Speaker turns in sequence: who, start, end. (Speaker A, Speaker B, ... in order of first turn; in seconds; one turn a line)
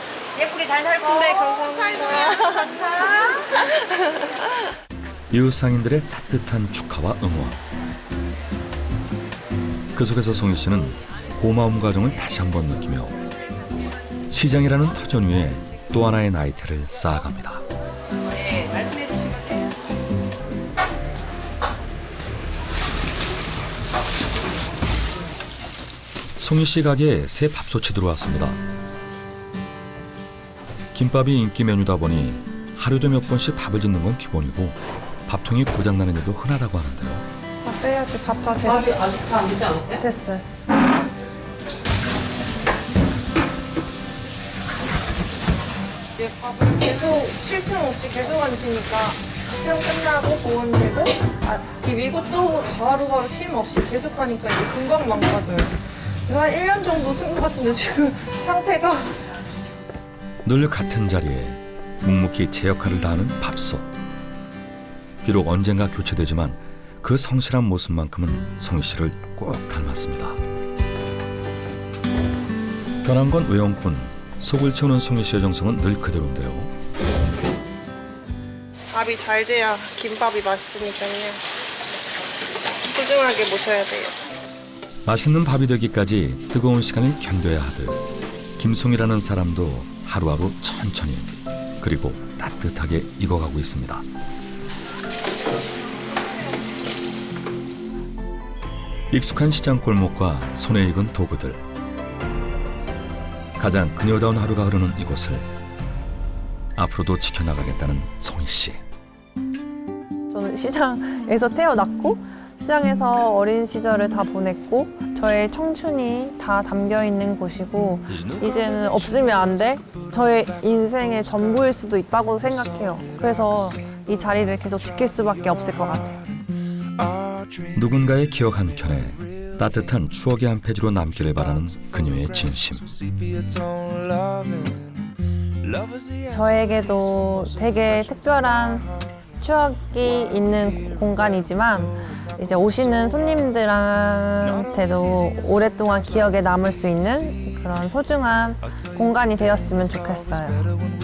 Speaker A: 0.4-3.3
Speaker B: 1.1-4.3
Speaker C: 1.1-2.6
Speaker D: 5.3-7.6
Speaker D: 9.9-13.2
Speaker D: 14.3-17.6
Speaker D: 26.4-28.6
Speaker D: 30.9-37.2
Speaker C: 37.6-39.1
Speaker A: 38.6-40.0
Speaker C: 40.0-40.4
Speaker C: 46.2-55.8
Speaker C: 56.3-59.1
Speaker D: 60.4-63.9
Speaker D: 65.2-70.4
Speaker D: 73.0-76.7
Speaker B: 78.9-81.4
Speaker B: 82.9-84.1
Speaker D: 85.0-88.0
Speaker D: 88.6-94.0
Speaker D: 99.1-101.6
Speaker D: 103.6-105.5
Speaker D: 106.8-108.8
Speaker C: 110.3-126.2
Speaker D: 118.1-119.4
Speaker D: 127.7-132.9
Speaker C: 136.3-138.9
Speaker C: 139.4-150.8